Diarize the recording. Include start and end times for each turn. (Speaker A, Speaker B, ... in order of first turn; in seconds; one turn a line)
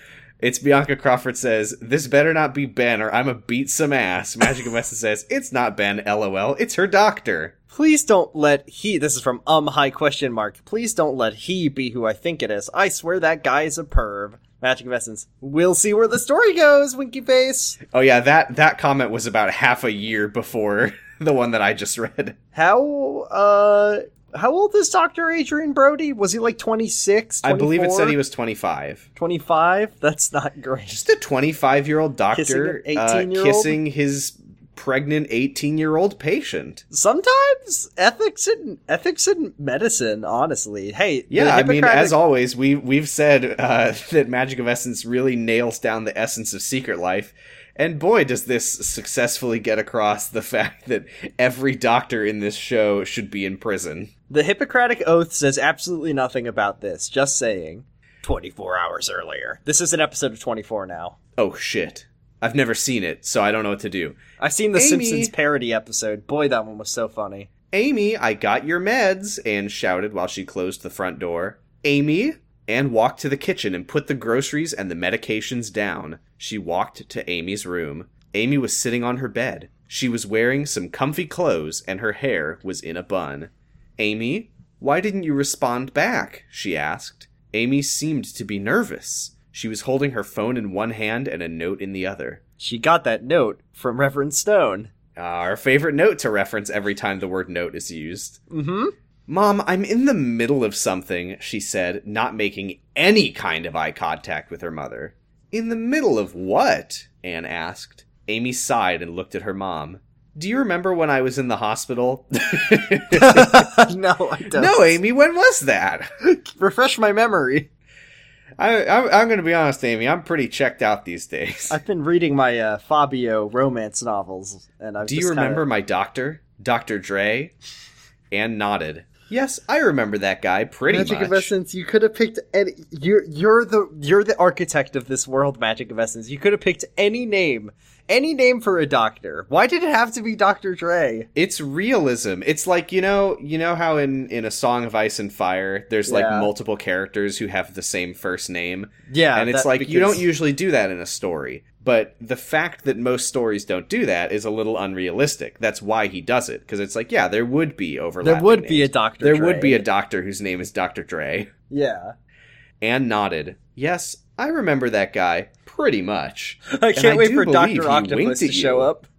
Speaker A: 0.4-7.5
Speaker B: 7.7-17.8
Speaker A: 17.9-22.4
Speaker B: 22.5-28.2
Speaker A: 27.4-29.1
Speaker B: 29.1-31.0
Speaker A: 30.9-36.8
Speaker B: 32.3-33.8
Speaker B: 36.9-42.2
Speaker A: 41.3-54.1
Speaker B: 54.3-61.1
Speaker A: 61.4-64.2
Speaker B: 64.4-67.5
Speaker A: 64.8-65.3
Speaker A: 67.7-92.4
Speaker B: 92.6-94.9
Speaker A: 95.2-98.4
Speaker B: 98.5-98.9
Speaker A: 99.3-113.7
Speaker B: 113.1-115.0
Speaker A: 114.5-116.1
Speaker B: 116.2-117.7
Speaker A: 118.6-121.8
Speaker B: 121.7-125.6
Speaker A: 125.0-127.5
Speaker A: 128.3-131.5
Speaker B: 130.9-141.3
Speaker A: 141.3-161.5
Speaker B: 146.1-146.5
Speaker B: 149.1-150.2
Speaker B: 158.2-159.8
Speaker B: 161.7-162.1
Speaker A: 162.8-168.9
Speaker B: 166.7-169.0